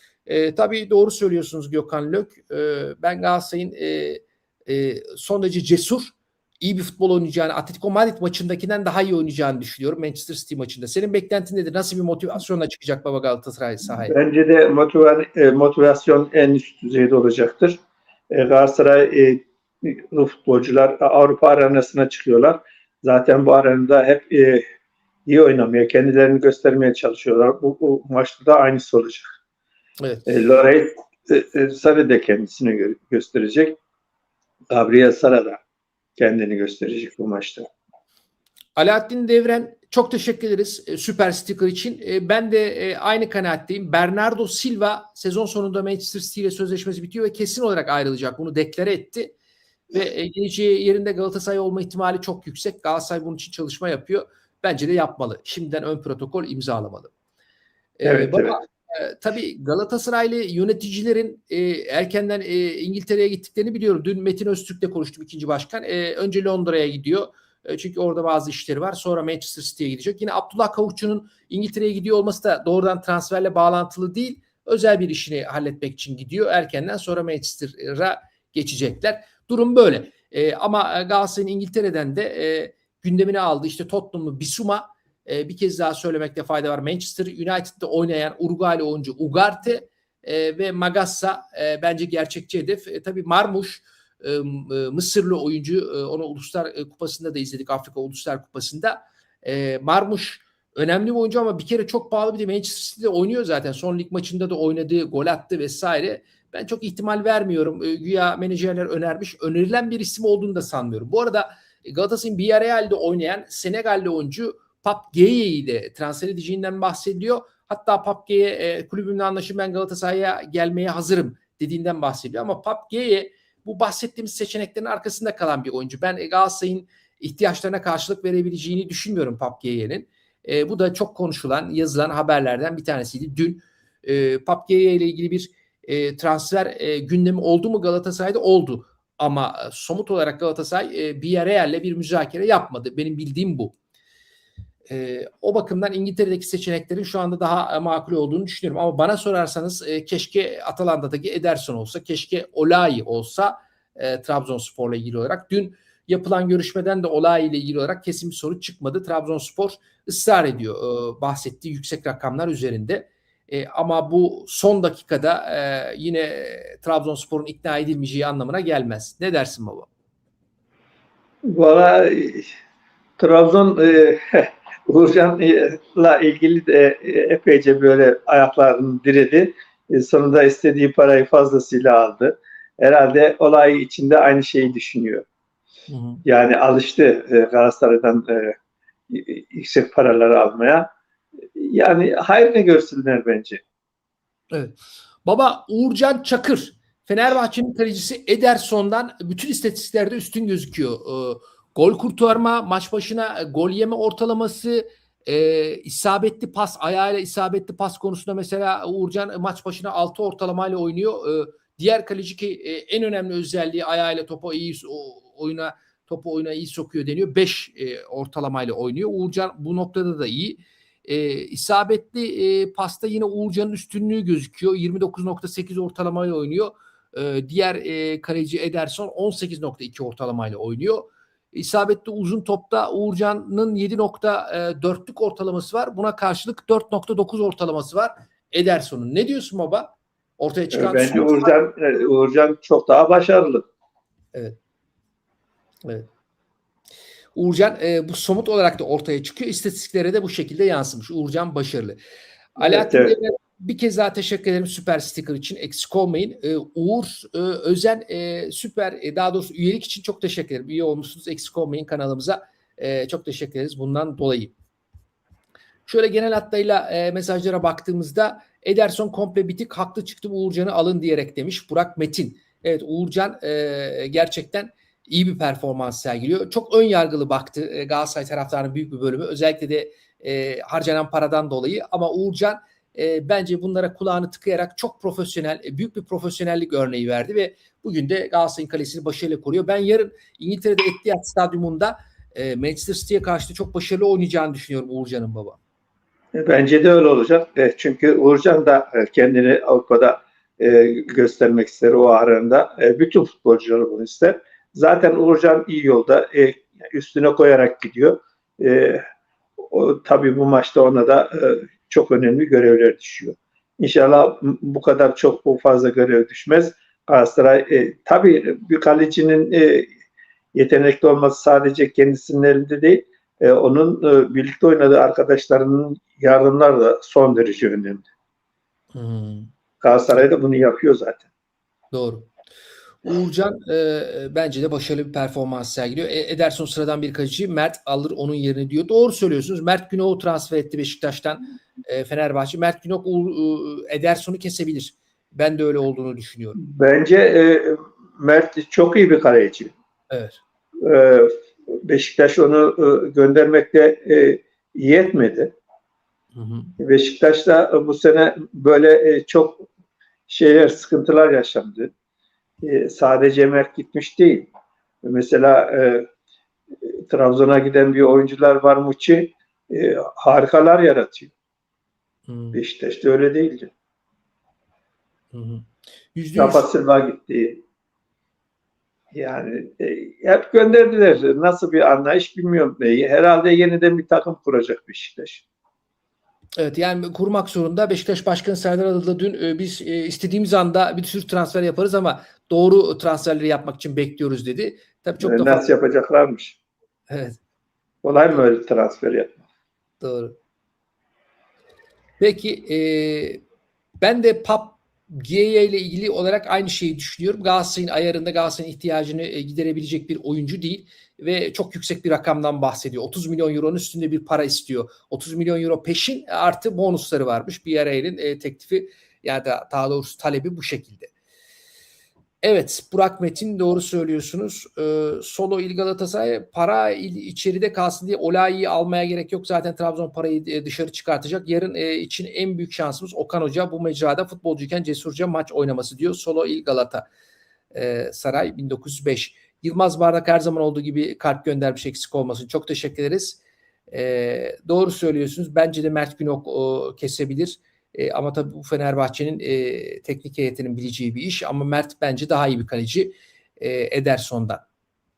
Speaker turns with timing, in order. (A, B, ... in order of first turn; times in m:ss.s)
0:00.2-0:14.1 A
0:14.0-0:17.8 B
0:18.3-0:24.6 B
0:25.2-0:29.3 B
0:30.0-0:30.3 A
0:30.2-0:33.8 B
0:34.7-0:35.6 B
0:36.2-0:37.7 B
0:38.8-0:49.3 A
0:49.9-0:57.1 A
0:58.0-2:23.7 A
0:58.0-0:58.6 B
2:24.9-2:49.9 A
2:51.4-2:52.5 B
2:53.2-3:05.2 B
3:05.9-3:06.2 A
3:06.2-3:08.5 B
3:09.1-3:10.9 B
3:11.6-3:13.6 B
3:14.5-4:01.5 A
4:00.7-4:03.6 B
4:07.3-4:12.0 A
4:12.6-4:24.5 A
4:12.6-4:13.2 B
4:25.9-4:55.6 A
4:56.3-5:09.0 B
5:09.6-5:19.9 B
5:20.5-5:28.0 B
5:28.9-5:29.5 A
5:29.8-5:31.2 B
5:31.9-5:32.3 A
5:33.0-5:46.7 A
5:46.6-5:49.7 B
5:50.1-5:50.4 A
5:50.8-5:51.3 B
5:51.8-5:55.5 B
5:56.3-5:56.7 A
5:56.8-5:59.7 B
6:00.3-6:01.9 B
6:02.6-6:04.5 B
6:05.0-6:06.0 B
6:06.8-6:11.3 B
6:12.3-6:12.6 A
6:12.5-6:13.7 B
6:15.3-6:16.7 A
6:16.4-6:17.6 B
6:19.1-6:25.4 B
6:26.6-6:35.7 A
6:35.2-6:36.6 B
6:37.1-6:37.4 A
6:38.0-6:39.4 B
6:40.0-6:40.4 A
6:42.2-6:43.4 A
6:44.0-7:01.1 A
7:02.4-7:17.0 A
7:17.7-7:34.6 A